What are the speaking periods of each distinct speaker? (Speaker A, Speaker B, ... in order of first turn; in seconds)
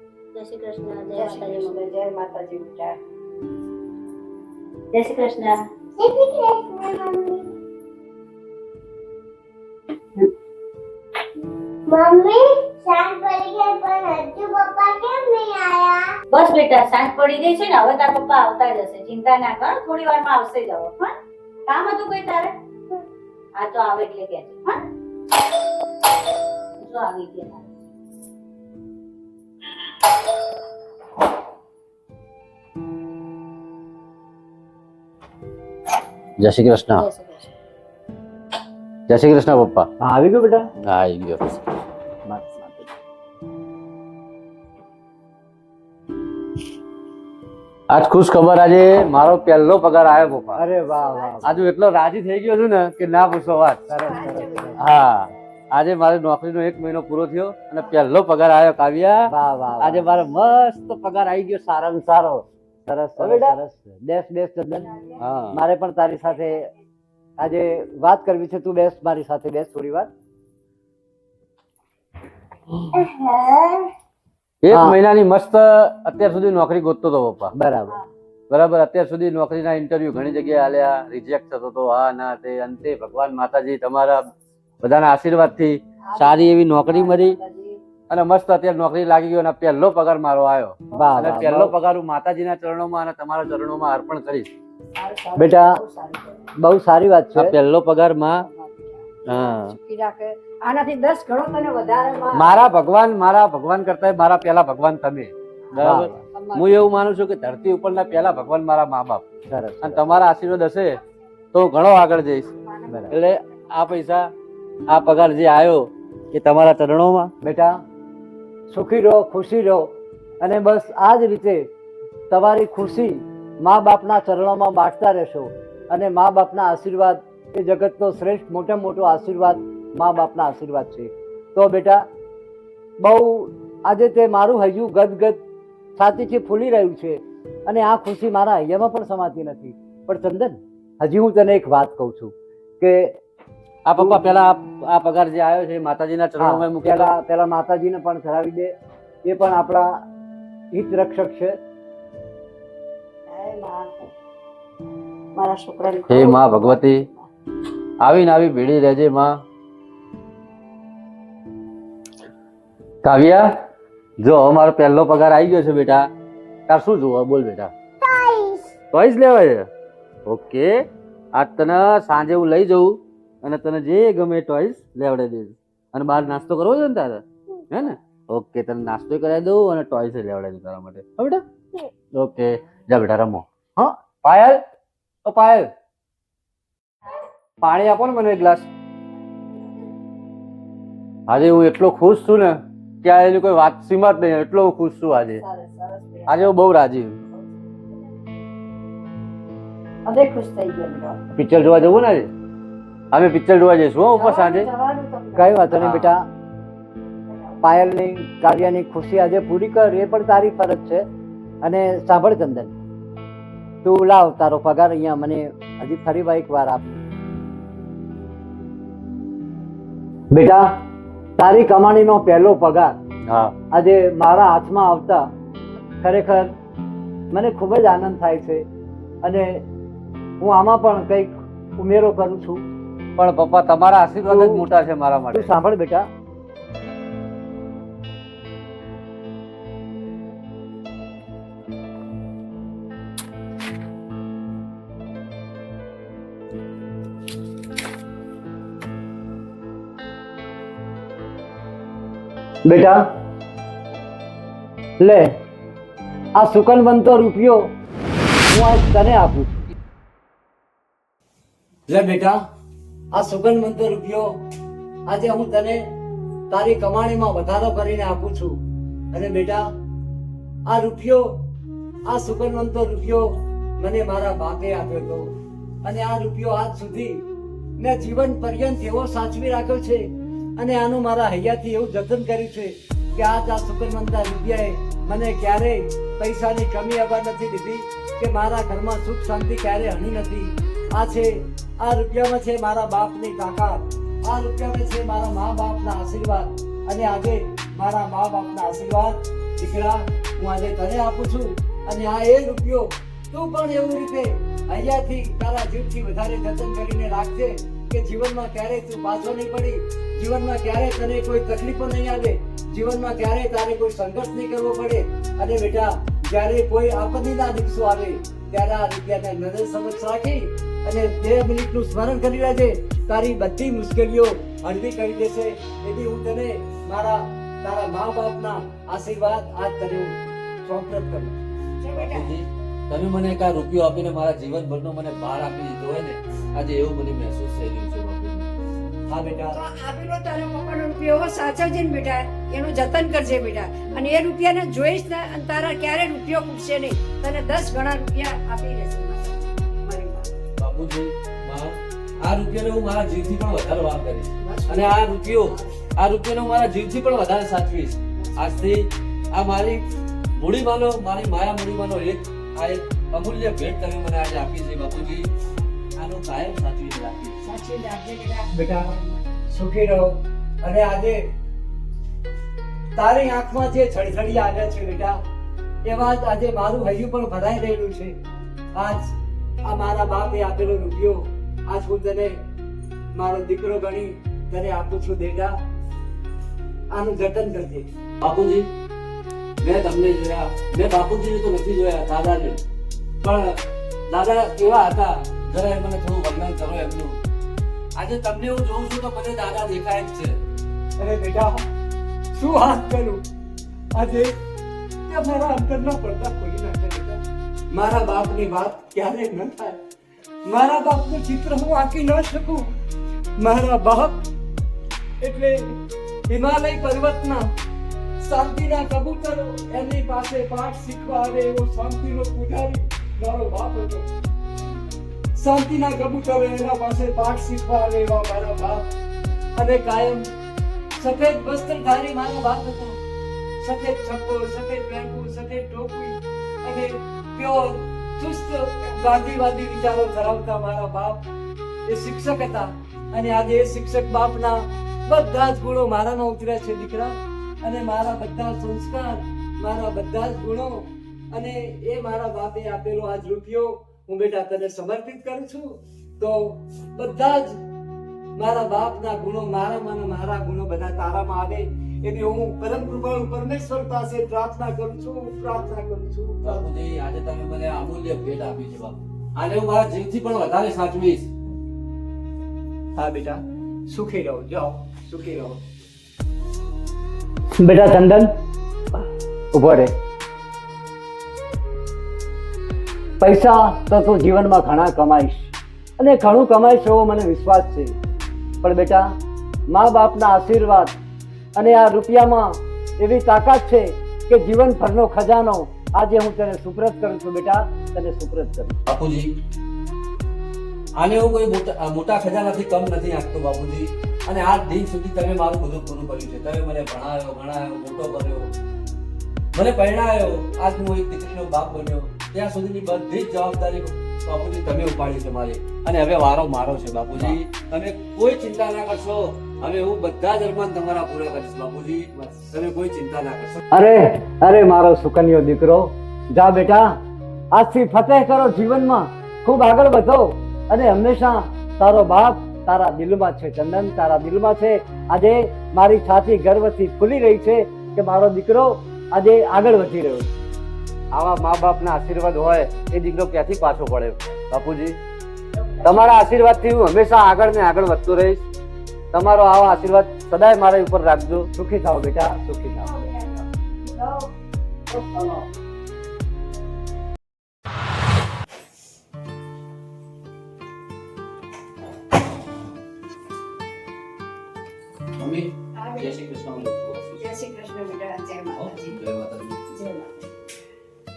Speaker A: 0.3-1.9, 4.9-5.6, 16.3-21.1, 21.7-22.5, 23.6-24.8, 26.8-27.7, 37.0-37.4
Speaker B: 1.1-3.0, 50.9-51.6, 53.9-55.3, 86.0-87.8, 95.0-96.5, 98.4-102.7, 106.3-106.9, 112.6-113.4, 153.3-154.1, 155.3-157.3, 195.4-196.6, 197.3-197.7, 200.1-201.2, 204.1-205.7, 331.8-332.3, 339.5-350.3, 354.4-355.9, 358.2-358.8, 367.4-369.3, 545.6-545.9, 552.7-554.3, 554.9-555.3, 565.8-566.2, 567.2-569.0, 569.7-570.3
Speaker C: 6.0-7.5, 11.9-16.2, 72.9-73.9, 168.0-168.7
Speaker D: 36.4-37.1, 39.1-39.9, 40.8-41.6, 47.9-50.6, 51.4-53.8, 54.8-62.5, 63.2-63.6, 65.2-65.6, 74.6-77.5, 78.5-84.3, 84.8-87.4, 88.1-94.5, 97.3-98.5, 99.3-99.8, 102.3-109.2, 109.8-111.0, 111.5-112.5, 113.1-114.3, 114.9-117.3, 143.9-147.1, 156.1-157.1, 158.0-159.4, 163.0-163.5, 164.2-166.1, 166.7-167.7, 168.9-169.7, 170.3-170.7, 171.3-181.4, 182.1-184.6, 185.3-185.7, 187.6-188.7, 191.3-195.4, 196.3-197.2, 201.3-202.3, 203.1-204.7, 205.7-206.1, 223.3-223.5, 233.2-235.5, 331.9-338.5, 350.6-359.8, 360.4-365.3, 366.0-367.4, 388.2-388.7, 389.6-392.6, 393.2-397.2, 398.0-400.4, 466.4-471.3, 498.9-499.3, 501.0-508.5, 509.5-523.6, 541.1-545.0, 545.8-548.4, 549.1-551.5, 565.2-567.2, 568.6-569.6
Speaker E: 40.0-40.7, 42.3-42.8, 50.6-51.6, 53.9-54.8, 59.3-60.1, 62.9-64.9, 65.5-66.7, 67.4-70.1, 74.7-75.0, 77.5-78.0, 90.9-91.7, 95.4-95.7, 96.6-97.5, 105.8-106.2, 109.5-110.2, 117.4-117.8, 118.7-119.9, 120.4-121.7, 122.3-132.0, 133.0-135.4, 136.0-143.2, 146.4-148.7, 149.3-149.9, 150.7-151.6, 205.4-206.3, 207.6-211.0, 211.6-212.7, 213.8-217.0, 220.3-220.7, 221.4-222.9, 223.7-225.2, 226.0-226.5, 227.3-228.7, 229.2-229.6, 230.4-232.7, 234.3-234.7, 235.3-236.1, 252.7-253.0, 255.0-255.3, 256.4-257.6, 258.5-259.7, 261.9-262.4, 263.1-264.3, 265.1-265.8, 266.5-268.6, 269.1-269.6, 270.7-271.3, 272.1-273.2, 273.8-275.3, 275.8-277.2, 277.8-280.0, 280.6-331.4, 339.1-339.6, 368.5-368.9, 369.5-370.1, 370.6-371.2, 372.9-375.2, 375.9-378.2, 378.8-379.1, 379.6-382.3, 383.1-385.5, 386.9-387.9, 401.0-401.6, 402.3-403.2, 403.9-404.3, 405.1-409.8, 410.5-412.7, 413.4-414.2, 415.2-415.8, 416.3-417.4, 418.2-424.1, 425.4-428.9, 429.6-430.2, 431.0-433.0, 433.6-441.2, 441.9-450.7, 451.3-457.5, 458.4-466.7, 473.0-475.6, 477.6-478.3, 479.5-479.9, 483.2-487.9, 488.6-489.1, 489.7-490.9, 491.6-498.7, 523.7-526.9, 527.5-540.3, 551.5-552.9